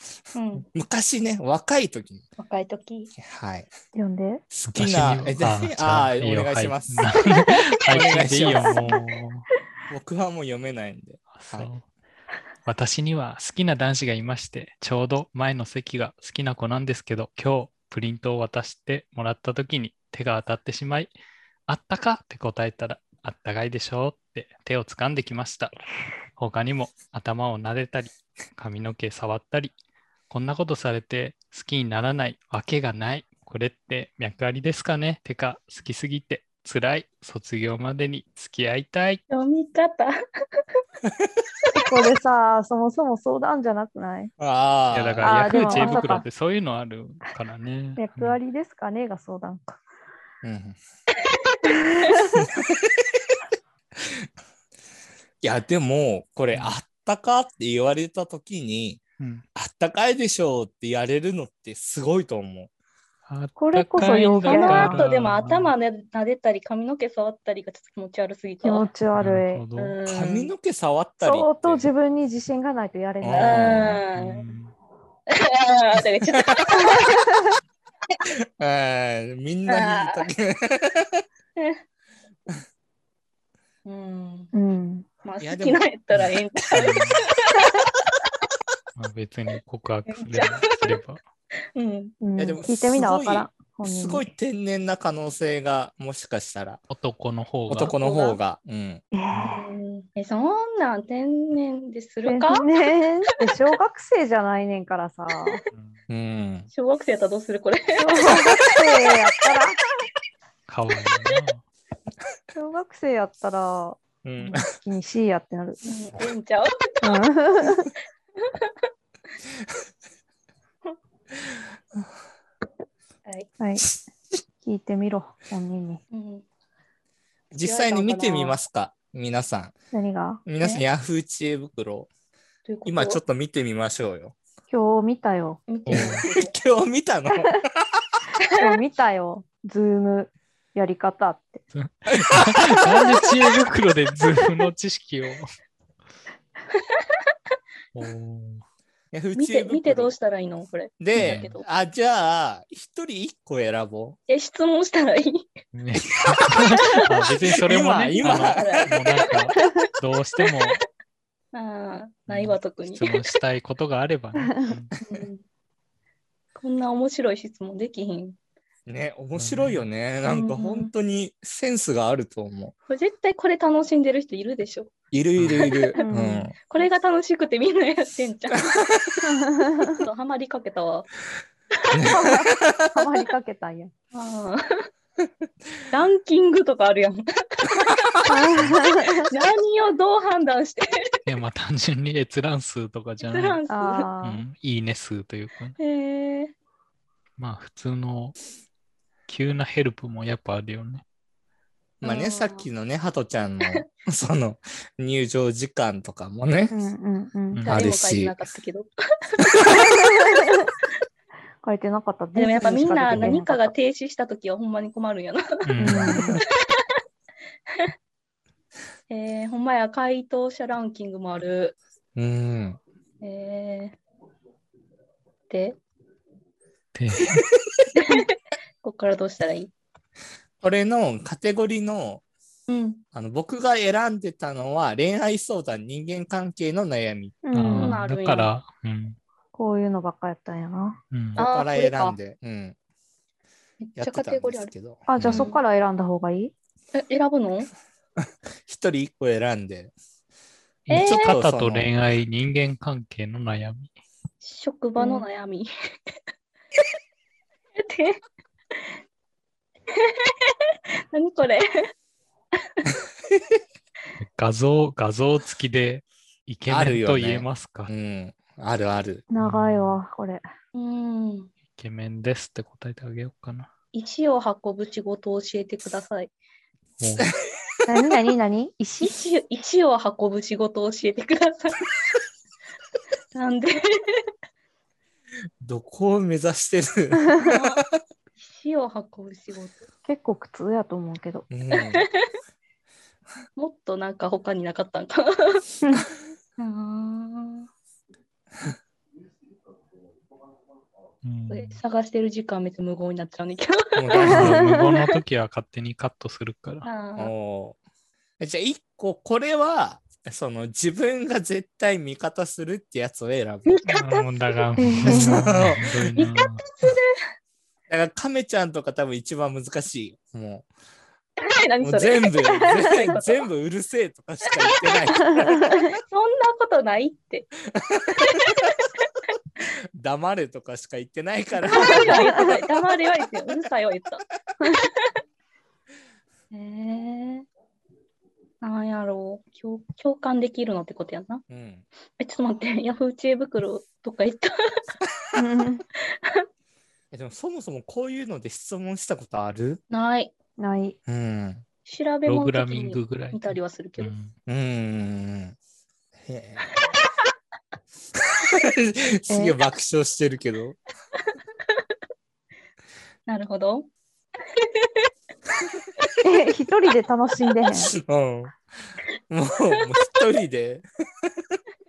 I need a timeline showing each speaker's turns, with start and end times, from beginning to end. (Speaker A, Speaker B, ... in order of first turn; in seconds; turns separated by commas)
Speaker A: 0.3-0.7, Speaker B: 0.7-2.2, Speaker A: 2.4-3.1, Speaker B: 3.1-3.7, Speaker C: 3.9-4.4, Speaker B: 4.5-7.3, Speaker D: 4.7-9.4, Speaker B: 7.9-8.9, Speaker A: 8.4-8.7, Speaker B: 9.9-11.7, Speaker D: 11.3-11.8, Speaker D: 12.7-21.1, Speaker D: 21.7-25.7, Speaker D: 26.4-29.7, Speaker D: 30.3-39.2, Speaker A: 39.3-40.1, Speaker B: 41.0-41.4, Speaker C: 41.7-44.3, Speaker B: 44.4-45.6, Speaker D: 44.9-48.4, Speaker C: 45.2-46.2, Speaker A: 45.6-46.2, Speaker C: 48.0-49.8, Speaker B: 50.4-50.8, Speaker A: 51.5-52.2, Speaker C: 51.6-52.4, Speaker B: 52.3-53.4, Speaker B: 54.0-54.3, Speaker B: 55.4-59.0, Speaker D: 56.5-56.8, Speaker D: 59.2-59.4, Speaker B: 59.5-62.7, Speaker D: 63.3-65.7, Speaker C: 63.5-65.0, Speaker A: 64.0-68.8, Speaker C: 68.6-69.6, Speaker D: 69.2-70.0, Speaker A: 69.8-70.5, Speaker B: 70.0-71.9, Speaker C: 71.2-73.7, Speaker B: 73.2-74.0, Speaker A: 73.3-74.4, Speaker D: 74.1-74.7, Speaker A: 75.3-77.2, Speaker B: 76.3-77.0, Speaker B: 78.3-81.2, Speaker A: 79.7-80.2, Speaker A: 83.8-84.5, Speaker C: 84.5-85.0, Speaker A: 85.2-88.1, Speaker B: 85.4-85.8, Speaker D: 86.1-87.2, Speaker D: 89.0-91.2, Speaker A: 90.1-91.0, Speaker A: 91.7-92.1, Speaker C: 92.2-94.2, Speaker B: 92.4-96.8, Speaker D: 96.9-97.9, Speaker B: 97.7-99.0, Speaker A: 97.9-98.4, Speaker C: 99.1-99.8, Speaker A: 99.4-102.7, Speaker C: 102.2-105.6, Speaker B: 106.1-106.7, Speaker A: 106.7-108.3, Speaker C: 107.9-109.8, Speaker D: 110.7-111.6, Speaker C: 112.5-115.8, Speaker B: 114.2-114.7, Speaker A: 115.8-117.7, Speaker C: 117.0-117.9, Speaker A: 118.4-118.7, Speaker C: 123.6-123.9, Speaker C: 124.6-126.0, Speaker A: 126.1-126.4, Speaker B: 127.5-129.7, Speaker A: 127.6-128.6, Speaker C: 129.9-130.4, Speaker B: 130.4-132.1, Speaker A: 132.7-133.2, Speaker B: 132.8-134.3, Speaker C: 134.7-135.6, Speaker A: 135.7-136.5, Speaker D: 135.8-136.2, Speaker B: 135.9-138.0, Speaker C: 138.6-141.6, Speaker D: 141.7-145.5, Speaker B: 142.1-143.2, Speaker A: 146.7-147.2, Speaker D: 147.9-148.6, Speaker B: 149.1-150.1, Speaker A: 149.3-151.7, Speaker B: 151.0-154.2, Speaker D: 151.1-151.4, Speaker A: 154.3-155.5, Speaker D: 155.7-160.8, Speaker B: 157.5-158.9, Speaker A: 158.2-159.5, Speaker A: 161.5-163.3, Speaker D: 162.3-164.9, Speaker C: 164.4-164.8, Speaker A: 165.0-165.4, Speaker A: 166.6-168.4, Speaker B: 168.9-172.7, Speaker D: 169.3-169.8, Speaker A: 170.2-170.9, Speaker A: 172.9-174.9, Speaker B: 175.1-176.5, Speaker D: 175.4-175.7, Speaker A: 175.5-176.0, Speaker C: 176.0-176.5, Speaker A: 176.6-179.2, Speaker B: 178.7-179.1, Speaker C: 179.2-180.0, Speaker A: 179.8-181.1, Speaker A: 181.7-182.1, Speaker B: 181.9-183.0, Speaker C: 182.1-183.9, Speaker A: 184.1-184.9, Speaker A: 185.9-188.2, Speaker C: 188.2-189.3, Speaker A: 189.2-191.1, Speaker D: 191.2-193.6, Speaker A: 193.2-194.1, Speaker C: 193.7-194.4, Speaker D: 194.2-195.8, Speaker A: 195.8-196.5, Speaker D: 197.4-198.3, Speaker D: 199.3-201.0, Speaker B: 202.0-206.7, Speaker A: 202.0-202.7, Speaker C: 206.7-207.6, Speaker D: 207.5-207.8, Speaker A: 207.7-210.6, Speaker B: 207.7-208.4, Speaker B: 209.4-209.9, Speaker C: 209.9-210.7, Speaker C: 211.6-213.7, Speaker A: 212.3-216.1, Speaker D: 215.6-216.3, Speaker C: 215.8-216.4, Speaker B: 216.0-216.4, Speaker A: 219.1-221.8, Speaker B: 222.1-222.8, Speaker A: 223.2-224.0, Speaker A: 225.5-225.8, Speaker D: 226.9-227.4, Speaker B: 227.6-227.9, Speaker A: 227.9-229.7, Speaker B: 230.6-232.2, Speaker A: 232.7-233.0, Speaker B: 233.1-237.4, Speaker C: 237.4-238.0, Speaker D: 237.5-239.2, Speaker A: 237.7-238.5, Speaker C: 239.5-241.0, Speaker D: 241.1-241.4, Speaker A: 241.4-242.2, Speaker B: 241.4-242.8, Speaker A: 243.8-244.7, Speaker B: 244.0-245.5, Speaker C: 245.1-246.5, Speaker A: 245.3-245.6, Speaker A: 246.9-247.7, Speaker B: 248.7-249.9, Speaker D: 250.9-253.9, Speaker B: 250.9-251.9, Speaker A: 250.9-251.3, Speaker A: 254.4-255.7, Speaker C: 255.0-255.2, Speaker A: 257.8-258.2, Speaker A: 259.9-261.7, Speaker A: 262.6-262.9, Speaker B: 263.3-263.6, Speaker D: 264.2-267.9, Speaker B: 266.7-269.2, Speaker C: 269.3-270.4, Speaker D: 269.4-270.0, Speaker A: 270.7-271.5, Speaker D: 271.7-273.7, Speaker A: 273.9-276.3, Speaker D: 277.0-277.3, Speaker B: 277.1-277.8, Speaker C: 277.9-279.1, Speaker A: 279.0-281.9, Speaker A: 283.3-284.2, Speaker B: 285.6-287.8, Speaker A: 287.4-287.8, Speaker A: 288.4-289.8, Speaker C: 290.0-291.5, Speaker B: 291.5-292.1, Speaker A: 291.7-292.3, Speaker A: 293.6-295.6, Speaker C: 295.8-296.1, Speaker A: 296.6-297.7, Speaker D: 301.2-301.8, Speaker A: 301.5-304.5, Speaker B: 303.9-304.6, Speaker D: 304.2-306.9, Speaker C: 304.3-304.9, Speaker A: 306.8-307.3, Speaker B: 307.2-307.8, Speaker B: 308.4-313.9, Speaker A: 313.6-314.3, Speaker D: 313.9-316.7, Speaker C: 314.8-315.5, Speaker B: 315.0-316.1, Speaker A: 316.2-317.2, Speaker B: 317.9-320.7, Speaker A: 321.4-323.4, Speaker B: 321.8-325.8, Speaker C: 322.8-323.1, Speaker A: 324.5-327.5, Speaker C: 325.3-325.9, Speaker B: 327.7-328.5, Speaker A: 328.2-329.1, Speaker B: 330.0-332.7, Speaker A: 331.6-335.1, Speaker C: 331.7-332.4, Speaker A: 336.5-337.5, Speaker A: 338.6-341.4, Speaker B: 341.5-341.8, Speaker A: 342.2-344.9, Speaker C: 345.3-345.8, Speaker A: 346.0-346.4, Speaker B: 347.1-349.8, Speaker A: 349.9-350.3, Speaker C: 350.6-351.0, Speaker B: 351.1-351.6, Speaker A: 351.9-354.1, Speaker D: 352.3-354.3, Speaker B: 354.5-355.6, Speaker B: 356.2-356.8, Speaker B: 358.1-360.8, Speaker C: 359.3-359.6, Speaker A: 363.3-363.9, Speaker A: 364.5-365.1, Speaker C: 366.2-367.9, Speaker B: 367.9-368.5, Speaker B: 369.3-371.6